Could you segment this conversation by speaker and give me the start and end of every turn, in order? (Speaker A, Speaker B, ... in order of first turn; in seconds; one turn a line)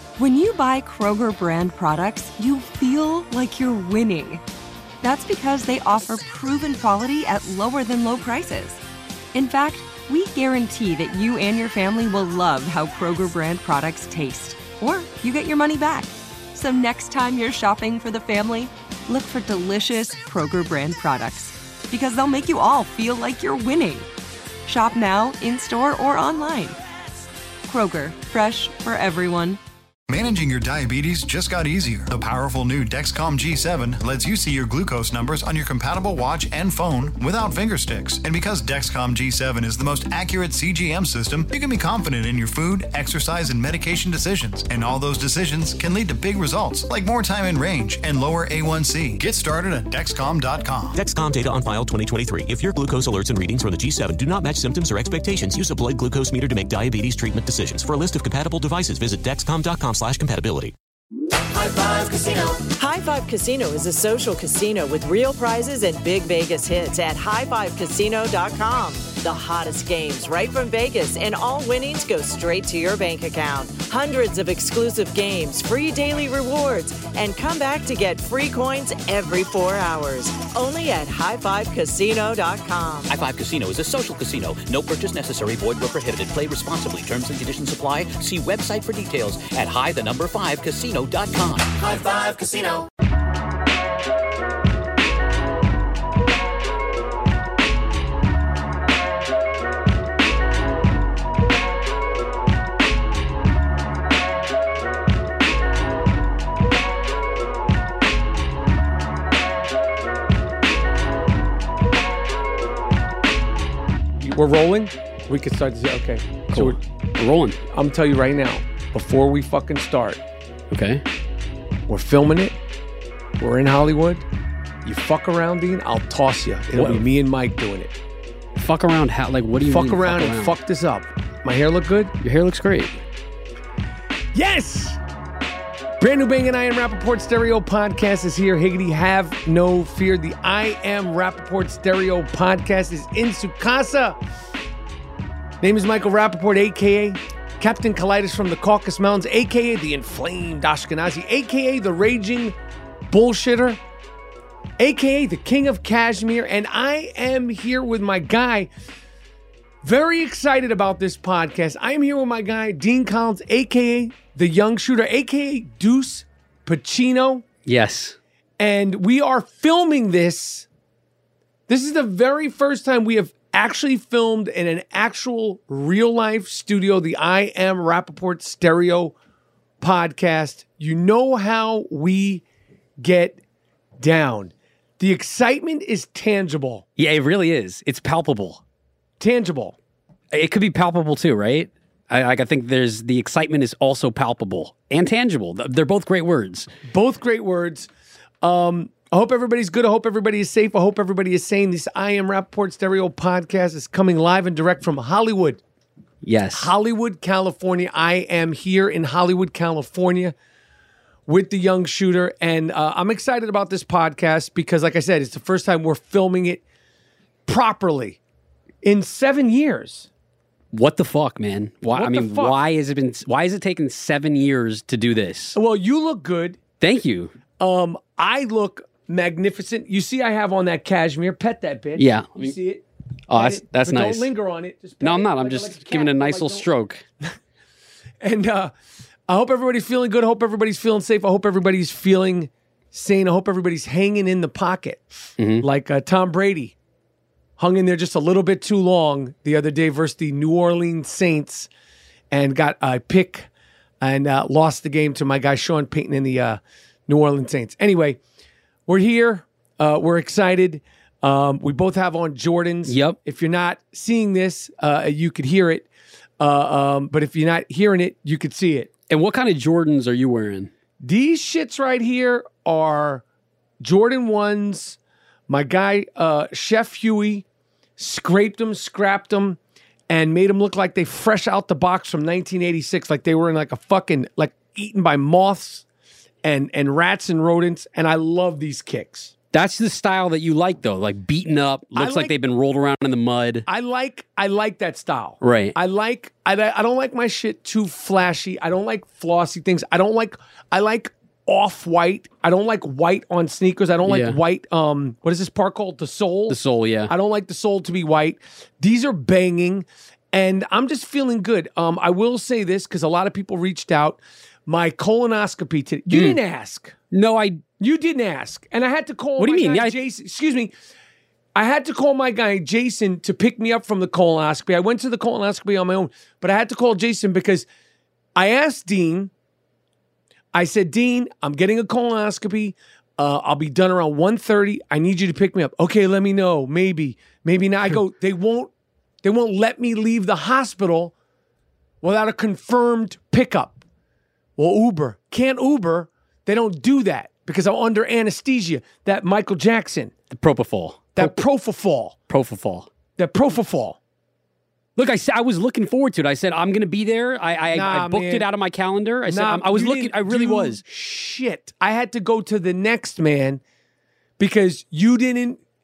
Speaker A: 0.2-4.4
Speaker A: 5.0-8.8
Speaker A: 9.3-24.1
Speaker A: 24.6-26.8
Speaker A: 27.6-29.6
Speaker B: 30.1-51.0
Speaker C: 50.9-60.7
Speaker D: 61.6-83.1
Speaker E: 83.1-92.8
Speaker F: 114.2-116.8
Speaker G: 116.5-117.6
Speaker F: 117.7-120.2
Speaker G: 120.7-121.0
Speaker F: 121.9-122.6
Speaker F: 123.4-124.2
Speaker F: 124.8-127.9
Speaker G: 126.7-127.0
Speaker G: 128.6-130.6
Speaker F: 129.7-132.1
Speaker G: 132.2-133.0
Speaker F: 134.3-135.0
Speaker F: 136.0-144.2
Speaker F: 145.6-152.5
Speaker F: 153.1-153.8
Speaker F: 154.8-158.7
Speaker F: 159.8-167.4
Speaker G: 167.7-168.2
Speaker F: 168.6-170.7
Speaker F: 171.7-179.1
Speaker F: 179.8-182.4
Speaker F: 183.0-183.4
Speaker F: 184.0-186.8
Speaker G: 187.0-188.6
Speaker F: 189.2-189.8
Speaker G: 190.3-196.7
Speaker F: 196.8-197.9
Speaker F: 198.4-205.6
Speaker G: 206.2-206.7
Speaker F: 206.5-210.3
Speaker F: 211.3-216.6
Speaker F: 217.4-218.2
Speaker F: 218.8-220.1
Speaker G: 220.7-225.6
Speaker F: 221.9-222.6
Speaker F: 225.5-226.6
Speaker G: 226.8-227.3
Speaker F: 227.6-236.7
Speaker G: 232.0-232.6
Speaker G: 233.3-234.3
Speaker G: 235.0-237.0
Speaker F: 238.2-238.7
Speaker F: 239.3-245.0
Speaker G: 245.4-245.7
Speaker F: 245.6-246.7
Speaker F: 247.6-251.7
Speaker F: 252.3-253.5
Speaker F: 254.0-258.2
Speaker F: 258.9-265.9
Speaker G: 262.9-263.2
Speaker F: 266.4-268.9
Speaker G: 269.1-270.7
Speaker F: 271.0-273.2
Speaker F: 273.8-275.0
Speaker F: 275.5-277.4
Speaker F: 278.0-279.6
Speaker F: 280.1-285.8
Speaker F: 286.4-289.3
Speaker G: 289.5-293.7
Speaker F: 291.9-292.3
Speaker F: 293.7-306.6
Speaker G: 295.4-295.8
Speaker G: 304.1-304.4
Speaker G: 306.5-307.1
Speaker F: 307.1-316.9
Speaker G: 316.1-316.4
Speaker G: 317.1-317.6
Speaker F: 317.8-320.7
Speaker G: 319.4-320.0
Speaker F: 321.6-327.7
Speaker F: 328.4-329.3
Speaker F: 330.5-338.7
Speaker F: 339.2-341.1
Speaker F: 342.0-343.8
Speaker F: 344.6-350.1
Speaker G: 350.3-351.5
Speaker F: 351.1-352.1
Speaker G: 352.3-352.9
Speaker F: 353.2-354.0
Speaker G: 355.0-360.8
Speaker F: 357.7-358.5
Speaker F: 359.3-363.6
Speaker F: 364.4-365.6